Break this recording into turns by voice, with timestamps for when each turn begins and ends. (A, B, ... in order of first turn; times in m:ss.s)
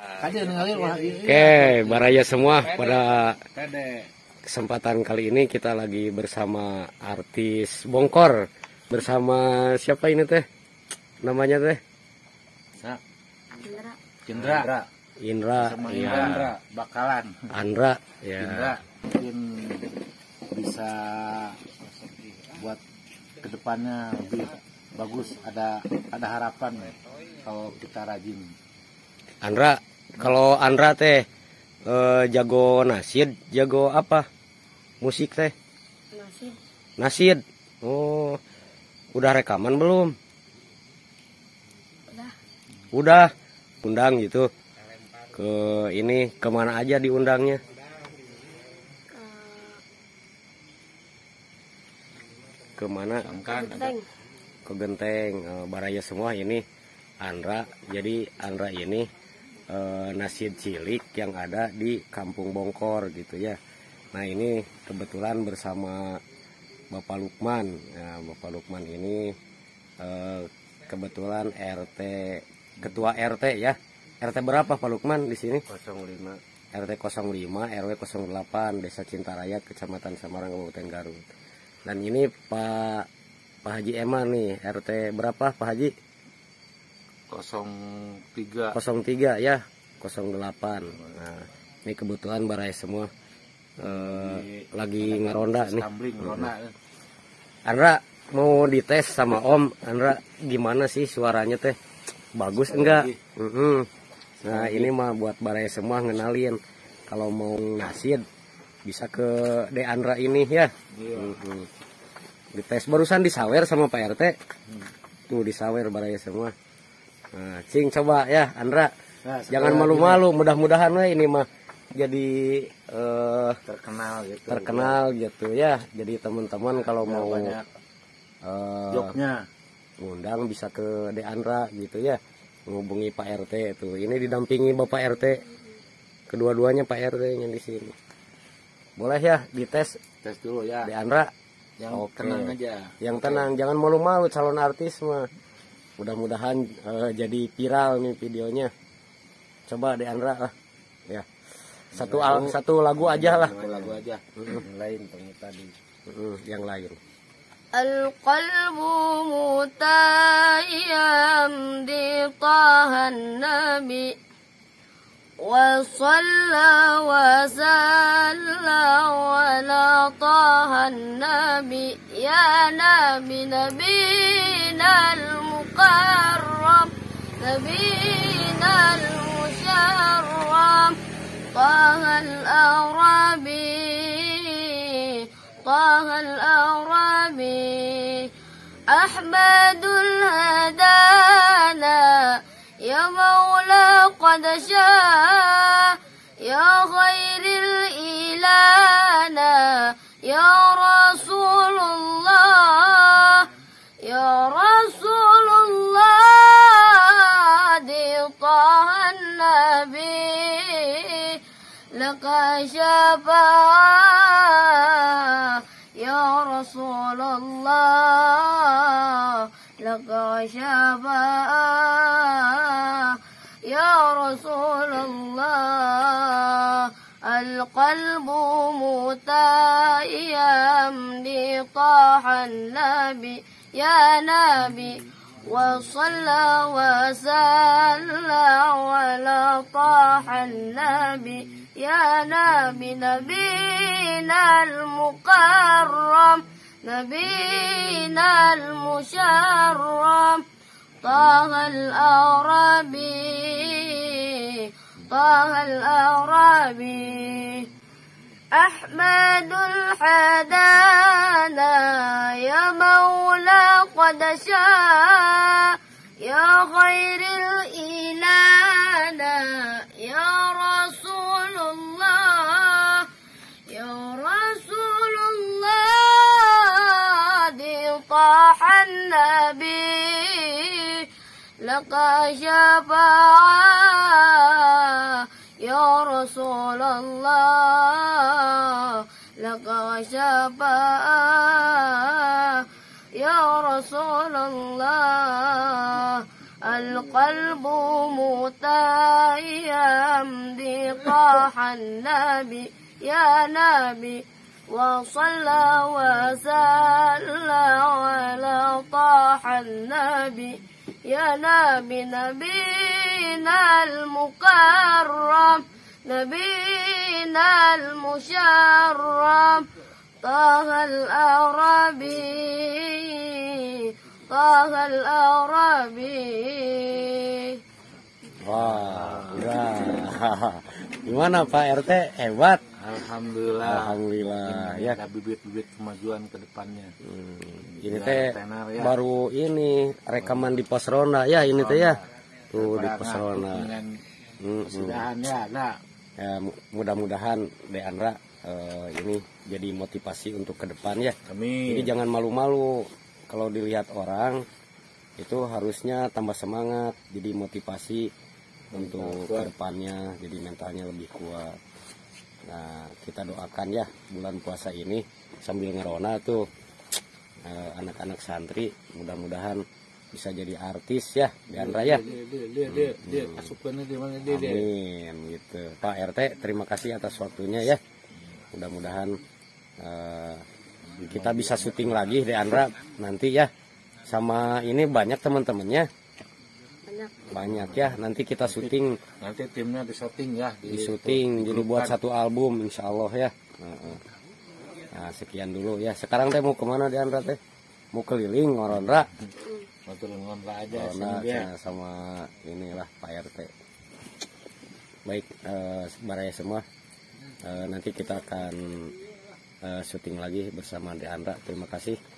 0:00.2-0:04.1 A
0:01.2-0:03.4 B
0:04.4-0:10.4 B
0:11.2-0:11.8 B
0:13.6-0:13.9 C
0:14.2-0:14.8 A
0:14.4-0:14.7 B
0:15.2-0:16.5 B
0:15.5-0:17.5 A
0:17.5-0:18.7 B
0:18.4-0:19.9 A
0:20.5-0:21.7 A
0:22.4-0:22.8 A
0:23.4-0:28.5 A
0:29.4-0:31.2 B
0:31.8-0:34.3 B
0:35.0-0:35.5 B
0:36.1-0:36.6 C
0:37.0-0:38.4 B
0:39.1-0:40.1 B
0:42.9-0:43.3 B
0:43.8-0:44.5 B
0:45.3-0:47.6 B
0:49.1-0:49.8 C
0:52.8-0:53.9 B
0:53.2-0:53.9 A
0:54.6-0:56.6 B
0:57.2-0:59.1 B
0:59.7-1:03.6 B
1:04.1-1:06.2 B
1:06.9-1:09.4 B
1:10.0-1:21.2 B
1:21.8-1:23.1 B
1:23.6-1:25.9 B
1:27.3-1:28.8 A
1:28.7-1:33.1 B
1:33.8-1:36.5 B
1:33.8-1:36.7 A
1:37.6-1:41.8 B
1:42.3-1:43.9 B
1:42.6-1:43.2 A
1:44.4-1:44.9 A
1:44.4-1:48.2 B
1:48.8-1:51.7 B
1:50.9-1:51.4 A
1:52.5-1:54.4 B
1:55.3-1:56.5 B
1:57.3-1:58.9 B
1:59.2-2:00.2 A
1:59.5-2:03.6 B
2:03.6-2:05.0 A
2:04.5-2:07.6 B
2:06.8-2:07.6 A
2:08.4-2:09.1 B
2:08.9-2:09.4 A
2:10.0-2:15.4 B
2:16.3-2:17.9 B
2:19.0-2:20.0 B
2:20.2-2:20.9 A
2:20.8-2:21.3 B
2:21.8-2:23.5 A
2:21.9-2:25.2 B
2:26.0-2:28.7 B
2:29.7-2:30.5 B
2:31.9-2:34.6 B
2:31.9-2:35.7 A
2:36.1-2:37.0 B
2:37.7-2:44.1 C
2:45.4-3:01.0 C
3:01.5-3:08.3 C
3:08.9-3:23.5 C
3:24.0-3:31.4 C
3:31.9-4:10.4 C
4:11.0-4:17.7 C
4:18.5-4:33.1 C
4:33.7-4:41.0 C
4:41.6-5:19.7 C
5:20.2-5:27.6 C
5:28.4-5:32.6 B
5:28.5-5:29.5 A
5:32.8-5:36.9 A
5:33.6-5:35.0 B
5:37.0-5:42.0 B
5:37.7-5:39.0 A
5:40.2-5:40.5 A
5:41.5-5:42.0 A
5:42.5-5:43.7 B
5:42.5-5:44.0 A
5:44.4-5:45.0 B
5:44.6-5:45.7 A
5:46.2-5:51.2 B
5:51.3-5:51.9 A
5:51.7-5:54.4 B
5:55.2-5:58.1 B
5:58.7-5:59.5 A
5:58.7-6:01.6 B
6:02.5-6:06.4 B
6:07.4-6:12.0 B
6:11.5-6:14.7 A
6:12.7-6:13.5 B
6:14.2-6:17.8 B
6:18.5-6:19.2 B
6:19.8-6:20.4 B
6:21.0-6:21.8 A
6:21.0-6:23.5 B
6:24.0-6:25.9 B
6:26.9-6:27.2 C
6:27.3-6:29.0 B
6:28.5-6:32.0 A
6:30.6-6:34.0 B
6:34.9-6:37.4 B
6:37.9-6:39.1 B
6:39.8-6:41.5 A
6:40.7-6:43.5 B
6:45.0-6:46.6 B
6:47.4-6:48.9 B
6:49.6-6:52.0 B